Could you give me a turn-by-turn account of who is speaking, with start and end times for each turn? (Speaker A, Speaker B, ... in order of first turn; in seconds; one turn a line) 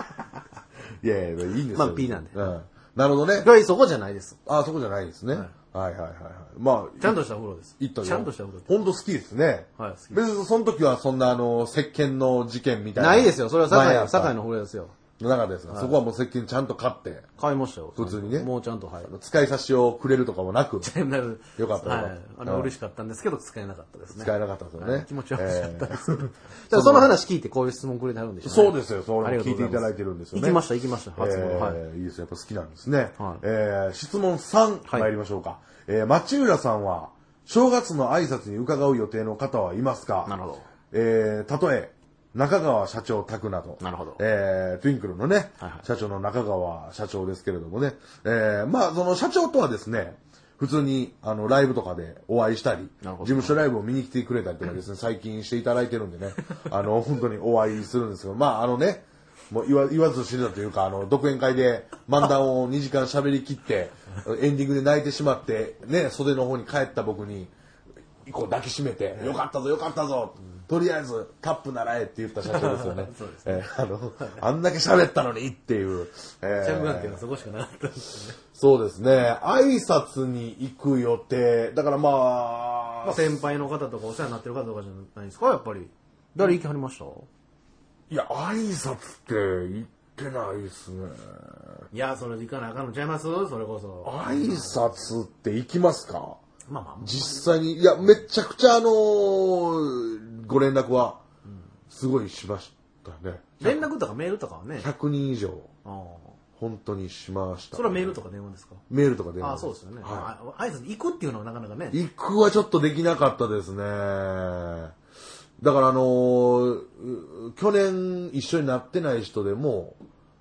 Speaker A: 1.0-3.5
Speaker B: 1.7-2.5
Speaker B: 3.4-4.4
Speaker A: 4.5-7.2
Speaker B: 7.0-8.7
Speaker A: 7.8-14.3
Speaker B: 9.8-10.2
Speaker B: 12.9-14.9
Speaker A: 15.2-17.3
Speaker B: 15.7-15.9
Speaker B: 17.4-19.1
Speaker A: 17.9-18.5
Speaker A: 19.1-20.9
Speaker B: 20.8-31.8
Speaker A: 21.6-22.7
Speaker A: 24.1-27.1
Speaker A: 28.4-30.6
Speaker A: 31.2-40.3
Speaker B: 40.3-40.7
Speaker A: 40.9-67.5
Speaker B: 43.8-44.2
Speaker B: 53.0-53.6
Speaker A: 68.2-77.2
Speaker B: 72.5-73.6
Speaker B: 76.6-78.4
Speaker A: 78.5-83.4
Speaker B: 83.0-87.3
Speaker A: 88.1-91.6
Speaker B: 91.9-94.8
Speaker A: 94.0-96.4
Speaker B: 96.7-97.5
Speaker A: 97.0-101.2
Speaker A: 101.9-103.9
Speaker B: 103.6-104.9
Speaker A: 104.8-105.7
Speaker B: 105.8-106.4
Speaker A: 106.6-108.2
Speaker B: 107.7-108.8
Speaker A: 108.9-110.3
Speaker B: 109.4-112.0
Speaker A: 111.9-114.9
Speaker A: 115.6-120.0